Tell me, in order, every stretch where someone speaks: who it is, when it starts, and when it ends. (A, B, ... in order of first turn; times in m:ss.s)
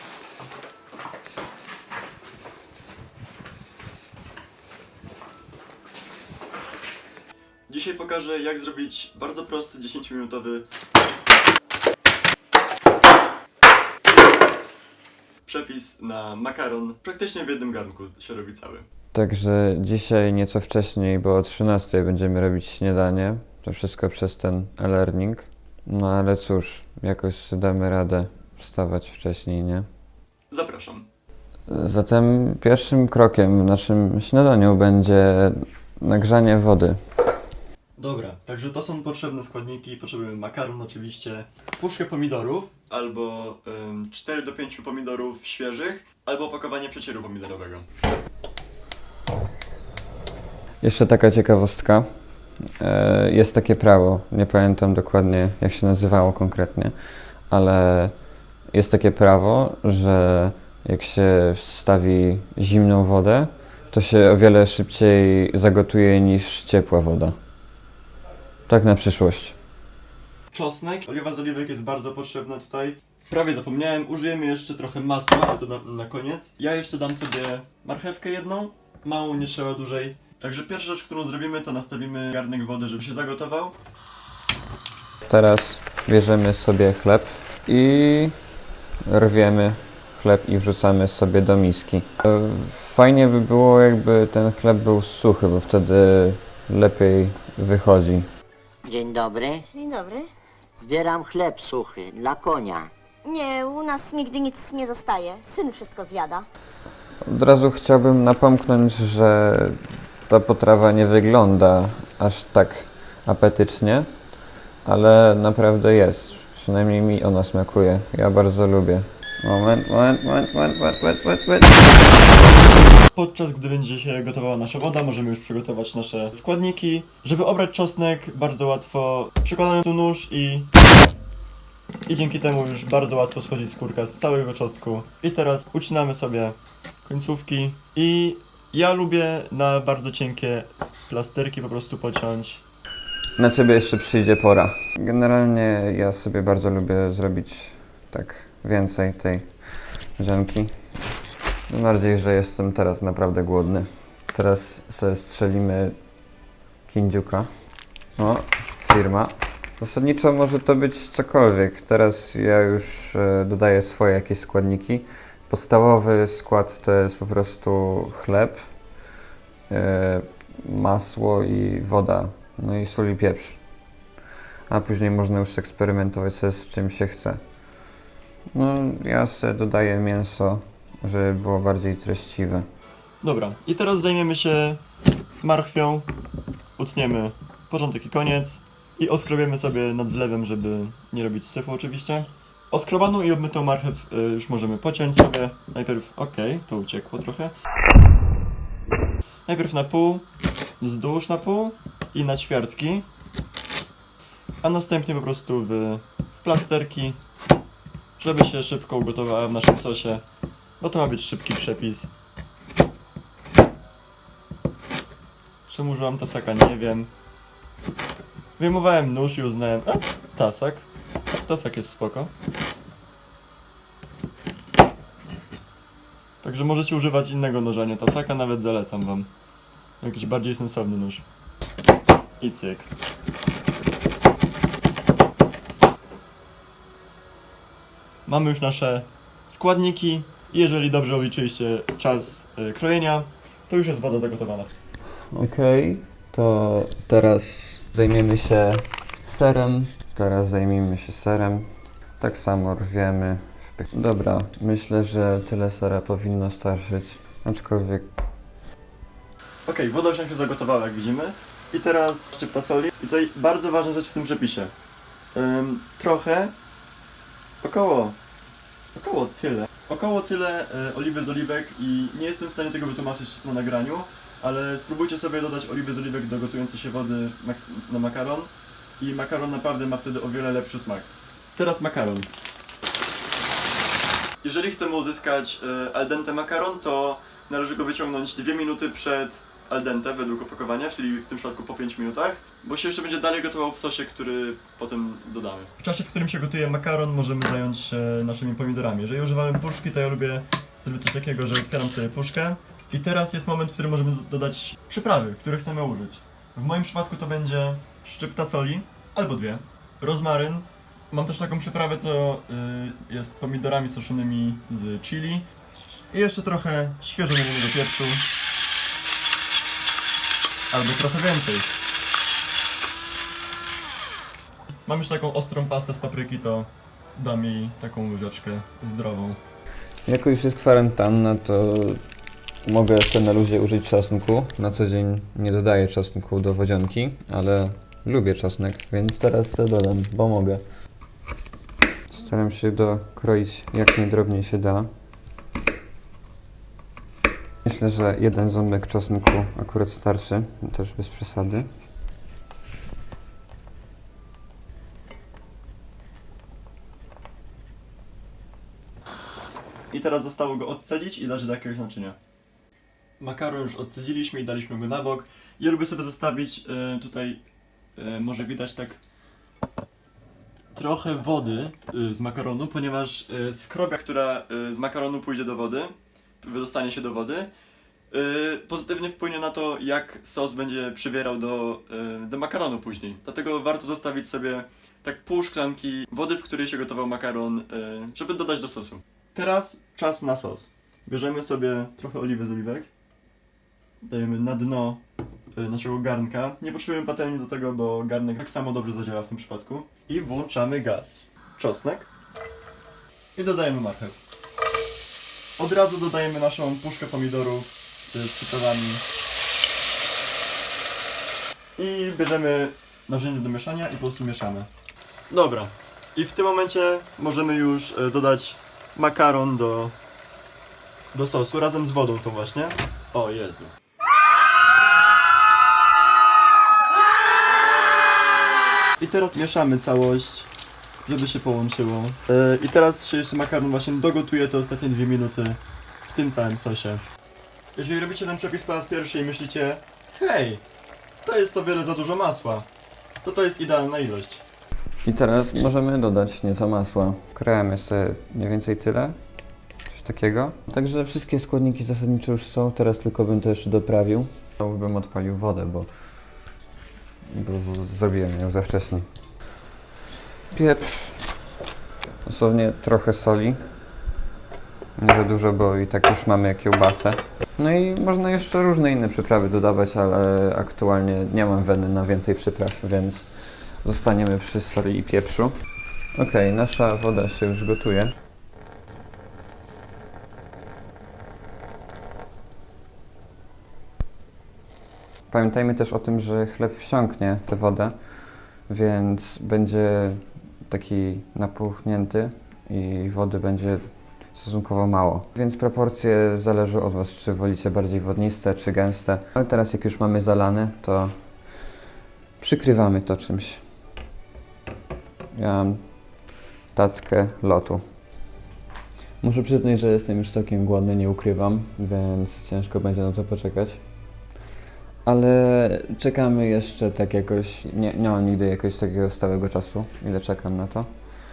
0:07.7-0:10.6 A
0:15.4-0:18.8 A
0:19.1-0:29.8 B
0:30.5-0:31.1 A
0:31.7-0:37.0 B
0:38.0-0:47.8 A
0:50.8-0:52.0 B
0:52.8-0:56.9 B
0:57.5-0:58.1 B
0:58.7-1:07.4 B
1:08.7-1:09.6 B
1:10.5-1:23.7 A
1:25.3-1:28.3 B
1:29.1-1:38.3 B
1:38.8-1:39.6 C
1:39.7-1:40.3 D
1:40.8-1:42.9 C
1:43.2-1:46.4 D
1:47.2-1:54.1 B
1:54.8-2:02.1 B
2:03.1-2:10.7 A
2:12.1-2:22.6 A
2:23.4-2:30.7 B
2:31.7-2:36.0 B
2:36.9-2:37.5 B
2:38.2-2:48.6 B
2:49.7-2:53.6 B
2:54.7-2:57.4 B
2:58.5-3:02.6 B
3:03.2-3:04.8 A
3:05.4-3:06.1 A
3:06.8-3:17.5 A
3:19.4-3:20.2 A
3:20.8-3:23.0 A
3:24.6-3:27.2 A
3:28.2-3:30.2 A
3:30.8-3:32.1 A
3:35.7-3:37.1 A
3:38.6-3:40.8 A
3:41.5-3:42.3 A
3:46.4-3:49.3 A
3:50.0-3:51.2 A
3:52.4-3:52.9 A
3:58.2-4:04.7 A
4:05.3-4:11.6 B
4:12.2-4:18.1 B
4:19.6-4:24.7 A
4:25.3-4:26.5 A
4:27.6-4:28.2 A
4:28.9-4:42.3 A
4:44.4-5:15.4 A
5:16.1-5:18.2 A
5:20.7-5:21.7 A
5:24.8-5:29.4 A
5:30.0-5:32.0 B
5:32.6-5:40.6 B
5:42.1-5:44.9 B
5:47.6-5:51.6 B
5:59.9-6:02.2 A
6:03.2-6:07.4 A
6:08.0-6:09.0 A
6:10.7-6:17.5 A
6:18.1-6:32.9 A
6:34.0-6:35.0 A
6:35.5-6:42.1 A
6:43.3-6:44.2 A
6:45.6-6:49.0 A
6:51.8-6:54.7 A
6:55.3-7:00.0 A
7:01.1-7:03.7 A
7:09.0-7:10.5 A
7:11.0-7:17.0 A
7:17.7-7:20.6 A
7:21.2-7:22.7 A
7:23.2-7:24.4 A
7:25.0-7:29.1 B
7:29.9-7:35.9 B
7:37.3-7:39.0 B
7:40.5-7:41.3 B
7:42.2-7:43.6 B
7:45.0-7:55.5 B
7:56.2-7:58.1 B
8:05.3-8:07.9 B
8:08.6-8:21.1 B
8:22.4-8:23.6 B
8:25.3-8:26.2 B
8:26.7-8:27.8 B
8:29.2-8:33.8 B
8:35.0-8:40.9 B